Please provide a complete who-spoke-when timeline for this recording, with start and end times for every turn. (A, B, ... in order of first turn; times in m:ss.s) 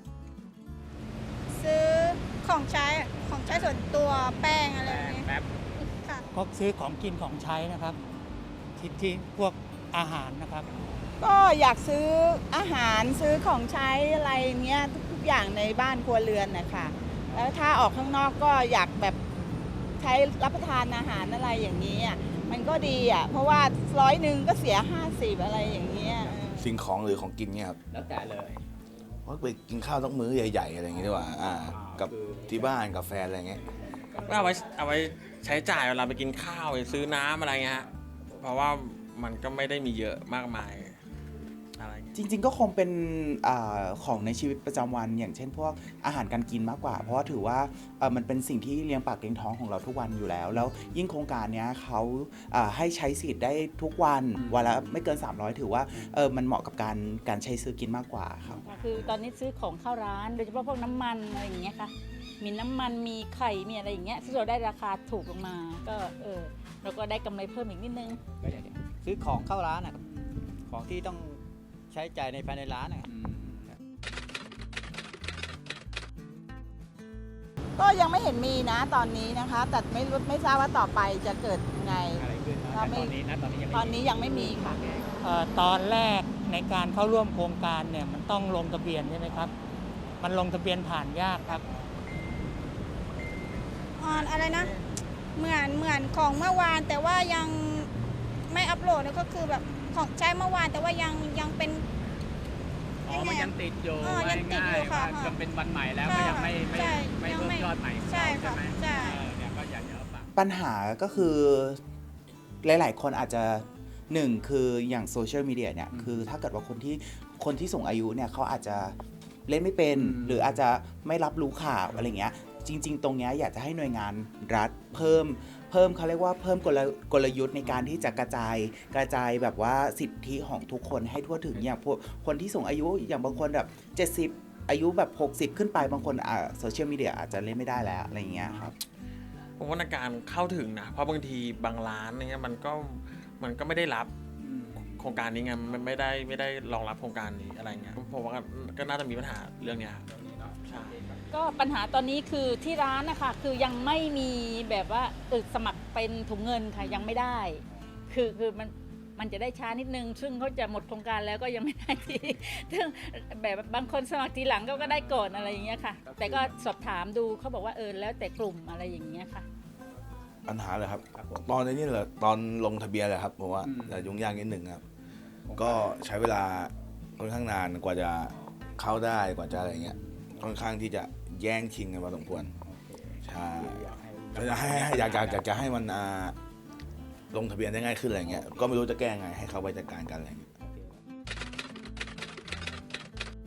0:01.5-0:06.2 A
0:06.3-0:08.0 B
0:08.8-0:10.7 B
0:11.2-0:19.2 C
0:20.0-0:26.7 C
0:26.6-0:27.8 D
0:29.3-0:33.6 D
0:34.2-0:41.0 E
0:41.8-0:42.2 E
0:42.2-0:58.6 F
0:58.6-1:08.4 G
1:08.4-1:10.0 H
1:10.7-1:11.4 H
1:11.9-1:13.0 H
1:17.8-1:23.2 C
1:22.2-1:22.5 I
1:22.7-1:23.1 G
1:23.7-1:24.8 C
1:25.2-1:29.5 B
1:30.2-1:31.6 B
1:34.0-1:34.7 A
1:35.4-1:37.9 A
1:38.5-1:41.8 A
1:43.1-1:45.4 A
1:43.2-1:50.3 I
1:44.3-1:44.9 G
1:46.0-1:49.3 A
1:46.4-1:47.1 G
1:48.3-1:48.5 G
1:50.4-1:51.8 F
1:52.6-2:18.8 F
2:19.6-2:24.1 E
2:24.8-2:30.0 E
2:30.6-2:31.0 E
2:31.3-2:49.5 G
2:50.5-2:54.8 D
2:55.6-3:02.6 D
3:03.2-3:06.4 D
3:04.6-3:05.1 G
3:07.3-3:10.5 D